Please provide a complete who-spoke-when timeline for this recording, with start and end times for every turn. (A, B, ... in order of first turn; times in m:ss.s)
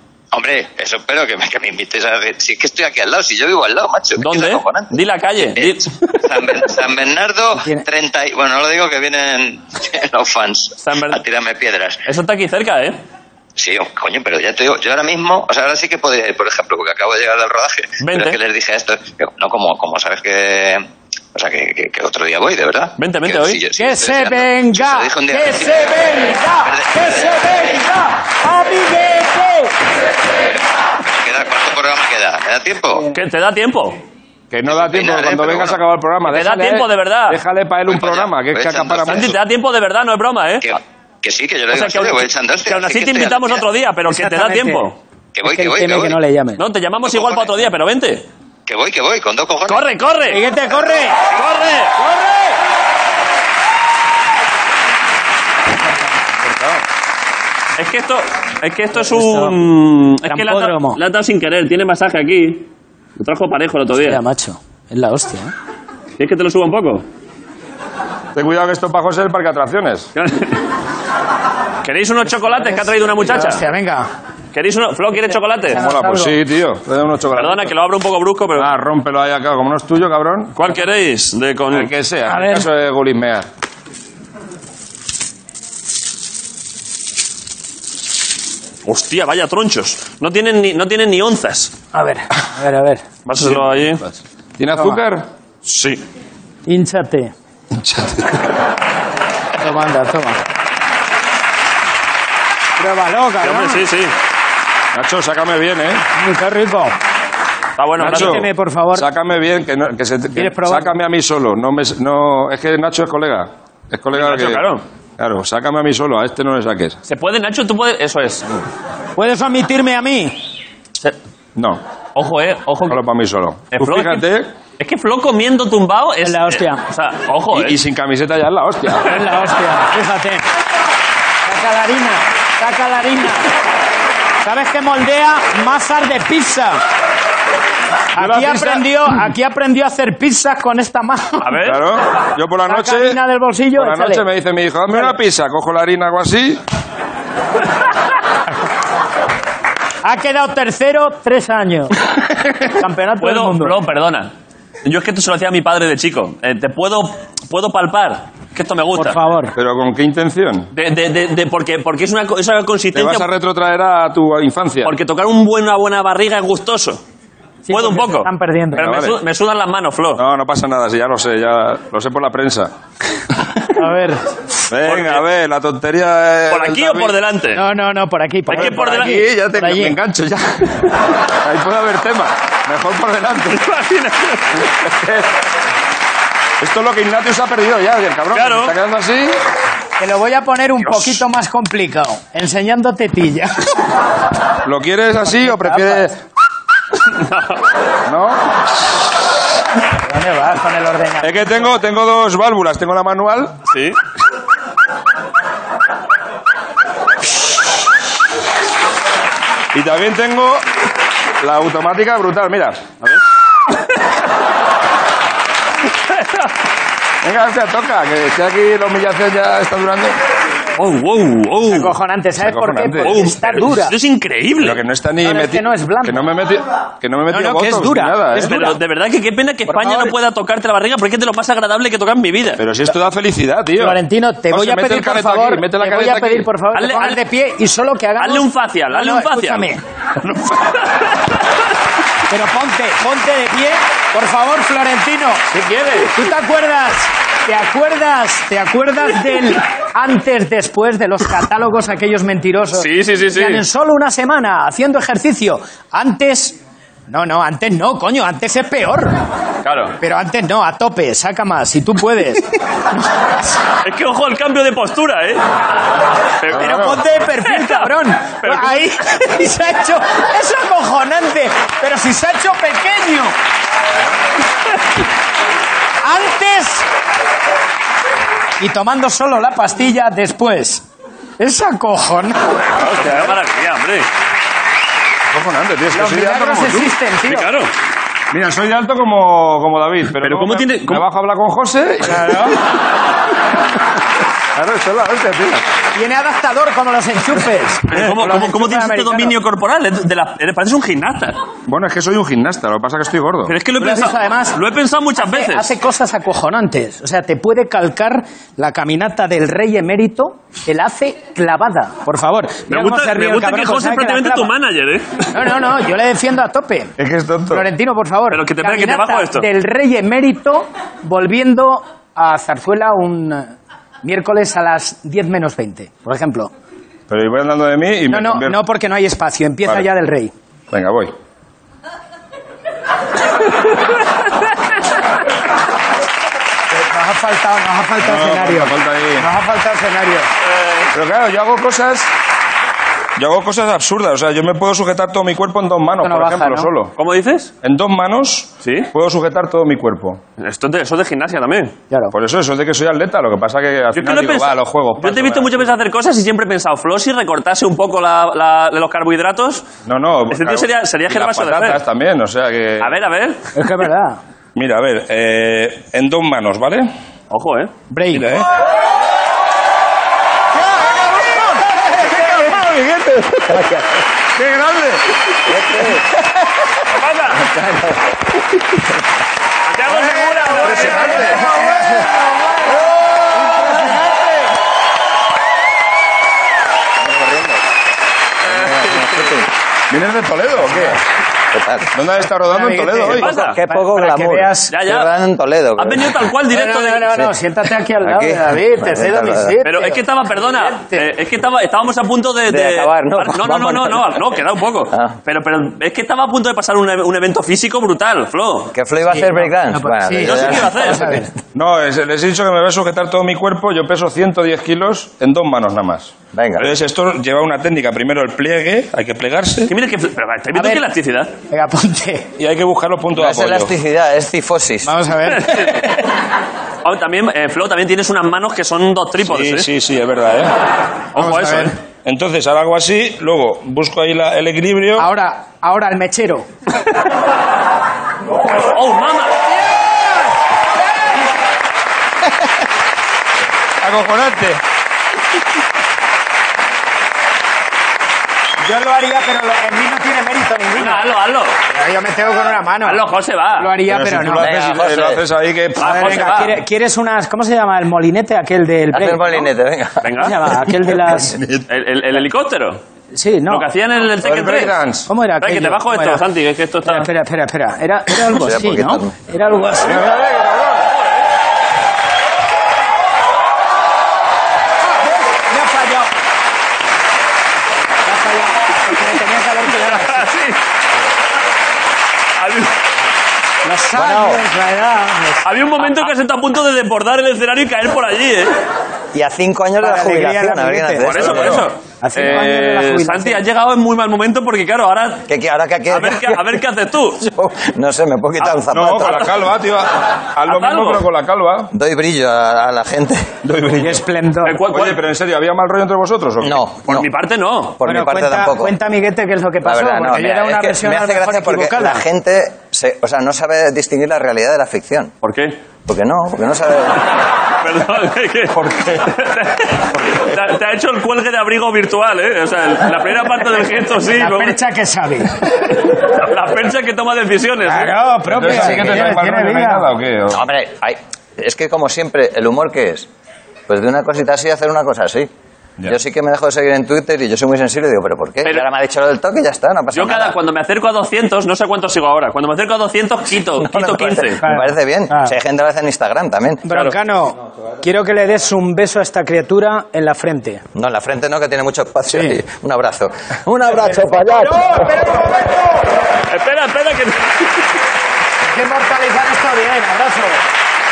0:00.3-0:04.9 A
0:04.2-0:06.0 B
0:05.6-0:12.0 A
0:07.6-0:07.8 C
0:10.8-0:11.2 B
0:12.1-0:13.0 B
0:13.6-0:27.6 A
0:18.0-0:18.4 B
0:23.0-0:23.6 B
0:23.8-0:29.7 C
0:31.1-0:33.1 A
0:33.1-0:34.0 B
0:34.5-0:39.4 D
0:34.7-0:35.8 A
0:36.3-0:37.4 B
0:37.9-0:39.4 A
0:39.1-0:40.7 B
0:40.6-0:43.6 A
0:41.7-0:45.0 B
0:44.1-0:44.9 C
0:45.4-0:46.2 A
0:45.4-0:46.6 C
0:46.6-0:48.3 B
0:47.0-0:47.5 A
0:48.7-0:49.8 A
0:49.7-0:50.4 B
0:50.3-0:51.2 C
0:51.3-0:52.0 B
0:52.0-0:52.6 C
0:56.4-0:56.8 D
0:57.8-1:04.2 B
0:59.0-0:59.6 C
1:00.3-1:01.0 C
1:04.0-1:05.5 C
1:06.2-1:07.0 B
1:08.4-1:10.1 D
1:10.2-1:10.6 B
1:11.8-1:13.6 B
1:13.2-1:14.1 C
1:14.5-1:15.8 B
1:15.7-1:17.7 D
1:15.7-1:16.4 C
1:17.4-1:18.7 B
1:18.6-1:20.6 D
1:20.6-1:21.9 B
1:21.7-1:23.5 D
1:22.3-1:22.7 C
1:28.8-1:31.7 B
1:31.9-1:33.0 C
1:33.3-1:34.0 B
1:33.4-1:35.2 D
1:36.7-1:37.3 C
1:37.7-1:38.5 D
1:39.6-1:40.4 C
1:42.8-1:43.9 C
1:43.4-1:44.1 B
1:44.9-1:46.0 D
1:46.2-1:47.0 C
1:47.8-1:48.5 B
1:48.0-1:54.7 D
1:48.0-1:49.1 C
1:50.4-1:50.9 C
1:54.1-1:54.8 B
1:55.2-1:57.0 D
1:57.1-1:58.6 B
1:59.2-2:00.4 C
2:01.6-2:01.8 D
2:02.2-2:03.0 B
2:02.9-2:04.5 D
2:03.7-2:04.3 B
2:04.8-2:07.8 B
2:06.2-2:06.8 C
2:07.5-2:09.2 D
2:09.0-2:10.4 C
2:11.5-2:13.5 C
2:14.4-2:16.8 C
2:18.1-2:21.6 C
2:18.2-2:18.9 D
2:21.4-2:21.8 B
2:21.6-2:23.2 D
2:22.7-2:24.2 C
2:23.7-2:26.6 D
2:30.0-2:31.9 C
2:32.6-2:33.8 C
2:33.2-2:34.3 B
2:34.8-2:39.2 B
2:39.0-2:39.6 C
2:39.6-2:40.7 D
2:40.7-2:43.3 B
2:42.9-2:45.0 D
2:44.8-2:47.0 B
2:47.7-2:48.8 C
2:47.7-2:50.2 B
2:48.8-2:49.2 D
2:50.2-2:52.7 D
2:53.8-2:54.2 C
2:54.7-2:57.2 D
2:54.8-2:55.2 B
2:56.5-2:57.6 B
2:57.5-3:00.0 C
2:58.5-3:03.6 D
2:58.5-2:59.2 B
3:03.5-3:04.7 B
3:04.7-3:05.3 D
3:06.6-3:09.4 D
3:08.3-3:08.7 B
3:10.0-3:13.7 C
3:14.6-3:16.2 D
3:15.2-3:16.1 C
3:17.1-3:17.6 B
3:18.1-3:18.6 D
3:20.1-3:21.7 C
3:21.2-3:23.6 D
3:23.7-3:24.0 B
3:29.7-3:30.7 D
3:31.4-3:32.8 D
3:36.1-3:36.4 B
3:37.2-3:40.2 D
3:40.8-3:41.9 B
3:41.6-3:43.9 C
3:42.4-3:43.2 D
3:43.0-3:44.8 B
3:44.6-3:48.6 D
3:45.2-3:46.2 C
3:47.3-3:48.8 C
3:48.4-3:52.6 B
3:49.7-3:50.1 C
3:52.6-3:56.5 D
3:53.8-3:59.8 C
3:56.7-3:57.2 B
3:58.2-3:59.7 B
4:00.3-4:00.6 B
4:02.3-4:05.5 C
4:05.5-4:06.2 B
4:06.1-4:16.6 C
4:12.8-4:13.6 B
4:17.1-4:19.2 C
4:19.6-4:20.0 B
4:20.0-4:22.6 C
4:23.8-4:25.4 B
4:26.4-4:29.0 B
4:26.5-4:33.4 C
4:26.5-4:27.0 D
4:36.0-4:36.9 C
4:38.6-4:40.8 C
4:41.4-4:42.6 C
4:42.8-4:44.1 B
4:45.3-4:46.9 D
4:45.9-4:47.5 C
4:47.3-4:47.7 B
4:48.3-4:52.6 D
4:50.2-4:51.0 B
4:52.0-4:52.6 C
4:54.5-4:55.6 D
4:56.0-4:59.3 C
4:57.9-5:01.4 B
5:01.7-5:03.6 D
5:03.5-5:05.7 B
5:03.8-5:04.6 C
5:05.2-5:14.5 C
5:12.7-5:15.3 B
5:15.3-5:17.0 C
5:17.0-5:17.7 D
5:17.5-5:23.5 C
5:18.3-5:19.5 B
5:24.0-5:26.5 C
5:27.1-5:28.6 D
5:28.1-5:30.3 C
5:30.7-5:31.2 D
5:36.7-5:40.3 C
5:38.0-5:39.3 D
5:40.4-5:40.9 B
5:40.9-5:42.1 D
5:43.2-5:46.9 D
5:46.0-5:46.7 C
5:47.0-5:47.5 B
5:47.6-5:50.2 D
5:48.6-5:48.9 B
5:50.4-5:51.8 B
5:52.1-5:55.7 D
5:54.0-5:59.7 B
5:59.9-6:02.9 D
6:00.3-6:01.8 B
6:02.8-6:03.4 B
6:03.6-6:04.2 C
6:04.6-6:06.9 D
6:07.3-6:07.7 B
6:07.9-6:08.3 C
6:08.1-6:08.5 D
6:11.2-6:12.7 C
6:12.0-6:13.6 D
6:14.4-6:15.0 D
6:15.5-6:16.1 E
6:16.9-6:17.5 B
6:17.5-6:18.0 E
6:19.7-6:21.4 B
6:20.0-6:22.8 C
6:20.5-6:21.5 D
6:23.4-6:24.5 C
6:27.1-6:27.6 E
6:28.5-6:29.3 B
6:28.5-6:29.5 E
6:29.9-6:31.0 D
6:31.5-6:31.9 E
6:31.9-6:33.3 D
6:32.5-6:34.8 C
6:33.1-6:33.6 B
6:33.2-6:36.2 E
6:34.7-6:35.1 B
6:35.8-6:37.1 B
6:36.5-6:41.1 C
6:38.0-6:39.6 E
6:39.6-6:48.7 B
6:42.5-6:44.2 E
6:48.7-6:51.2 E
6:49.1-6:51.3 C
6:50.2-6:51.2 B
6:51.5-6:59.7 D
6:56.3-6:56.7 E
6:59.7-7:01.3 B
7:00.5-7:00.8 C
7:01.5-7:02.3 C
7:02.4-7:03.8 D
7:03.2-7:05.0 E
7:04.8-7:05.9 C
7:05.3-7:05.9 B
7:06.8-7:09.7 B
7:09.2-7:10.5 D
7:11.2-7:11.8 B
7:11.2-7:11.7 C
7:12.0-7:15.1 D
7:15.0-7:16.5 C
7:18.5-7:19.4 B
7:23.8-7:24.6 D
7:28.6-7:31.0 C
7:30.8-7:31.6 B
7:31.7-7:33.0 C
7:32.8-7:33.8 B
7:33.6-7:34.5 C
7:33.8-7:36.3 D
7:34.4-7:35.2 E
7:35.8-7:36.6 B
7:35.8-7:39.5 C
7:38.9-7:40.1 E
7:40.0-7:40.4 B
7:40.2-7:41.4 C
7:41.1-7:41.6 D
7:41.7-7:42.8 B
7:43.1-7:43.7 C
7:43.5-7:44.7 B
7:44.2-7:45.1 D
7:45.1-7:46.2 C
7:45.4-7:47.1 B
7:46.8-7:50.1 C
7:48.4-7:49.2 E
7:49.8-7:50.9 D
7:55.0-7:56.1 C
7:58.0-8:00.3 C
7:59.7-8:00.6 B
8:02.4-8:02.8 B
8:03.6-8:05.5 C
8:03.9-8:04.4 E
8:05.4-8:08.6 B
8:09.1-8:11.6 E
8:09.8-8:11.3 C
8:11.0-8:15.2 B
8:11.2-8:11.7 D
8:12.0-8:13.4 C
8:15.3-8:16.5 E
8:15.9-8:17.2 B
8:17.2-8:19.2 E
8:18.4-8:19.3 B
8:18.7-8:21.7 D
8:20.5-8:21.0 B
8:21.7-8:23.3 E
8:23.4-8:24.0 D
8:23.8-8:24.6 C
8:24.4-8:25.0 B
8:24.7-8:26.6 D
8:26.4-8:27.1 E
8:26.8-8:27.8 B
8:27.8-8:28.8 E
8:27.8-8:32.0 C
8:29.6-8:35.1 E
8:35.2-8:35.6 B
8:35.9-8:37.1 E
8:37.6-8:44.6 B
8:44.1-8:45.5 C
8:45.9-8:48.0 B
8:47.6-8:49.9 C
8:48.3-8:50.5 D
8:50.3-8:53.1 E
8:53.7-8:55.3 E
8:55.8-9:00.4 E
8:59.9-9:04.4 B
9:03.6-9:06.6 E
9:04.4-9:05.4 C
9:06.6-9:10.6 C
9:10.8-9:14.9 E
9:12.1-9:12.4 C
9:13.8-9:15.8 C
9:16.3-9:17.5 B
9:18.5-9:20.4 C